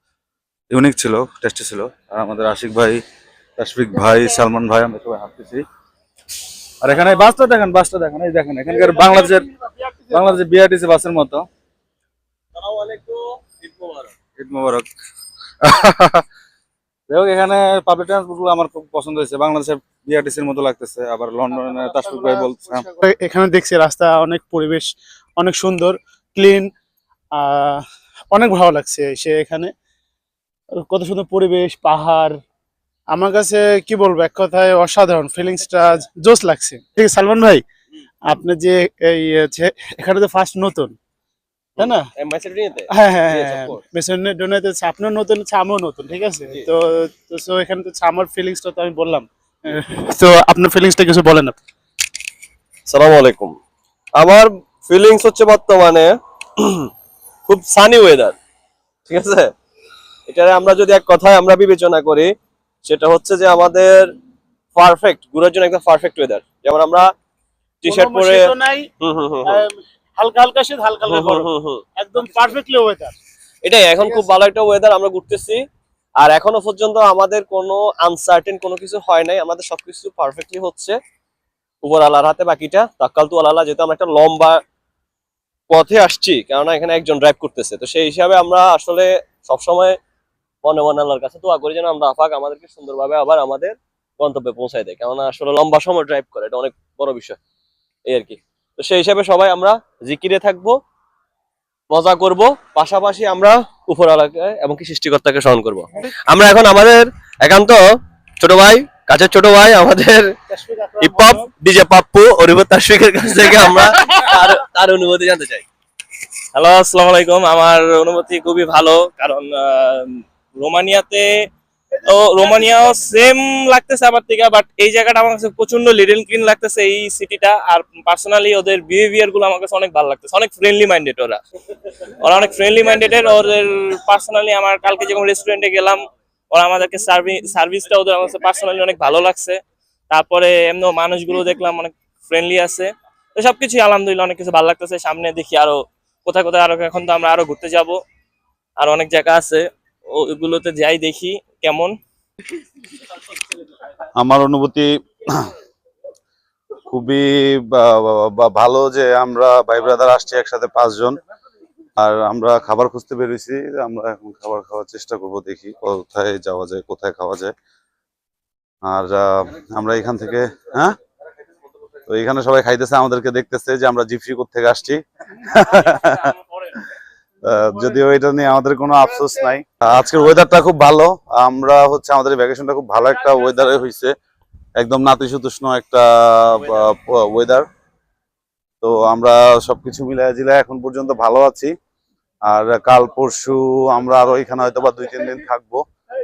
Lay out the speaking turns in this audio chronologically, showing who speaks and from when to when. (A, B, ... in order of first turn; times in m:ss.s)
0:00.7-0:03.0 A
0:03.6-0:05.6 A
0:06.8-0:09.5 A
0:08.8-0:10.1 B
0:10.1-0:11.4 A
0:12.6-0:14.1 C
0:14.4-0:14.9 A
0:15.6-0:16.2 A
0:17.1-0:22.9 A
0:21.6-0:26.7 B
0:27.3-0:29.7 B
0:30.7-0:32.4 B
0:33.1-0:37.6 B
0:38.2-0:40.9 B
0:41.8-0:43.8 C
0:41.8-0:42.0 B
0:42.9-0:51.5 B
0:52.9-0:53.6 C
0:54.2-0:56.9 C
0:57.4-0:58.4 C
0:59.0-0:59.5 C
1:00.3-1:02.3 C
1:02.8-1:04.1 C
1:04.7-1:07.1 C
1:07.8-1:09.6 C
1:07.8-1:08.9 B
1:09.4-1:13.2 B
1:11.0-1:12.4 C
1:13.6-1:15.6 C
1:13.9-1:14.3 B
1:16.2-1:21.0 C
1:21.8-1:24.6 C
1:25.7-1:30.0 C
1:30.6-1:37.4 C
1:38.0-1:40.7 C
1:41.9-1:47.8 C
1:48.4-1:50.3 C
1:50.5-1:51.5 B
1:51.0-1:55.6 C
1:56.5-2:01.3 D
2:02.0-2:11.4 D
2:12.2-2:19.6 D
2:20.1-2:28.0 D
2:28.8-2:31.9 D
2:34.2-2:34.9 E
2:36.9-2:41.2 E
2:42.0-2:47.4 E
2:43.1-2:43.4 A
2:45.1-2:47.5 A
2:48.9-2:50.0 E
2:49.7-2:50.9 A
2:52.1-2:52.4 A
2:52.3-2:55.0 E
2:55.7-2:56.2 E
2:57.5-3:04.1 E
3:04.8-3:07.6 E
3:08.8-3:11.7 E
3:12.5-3:15.8 E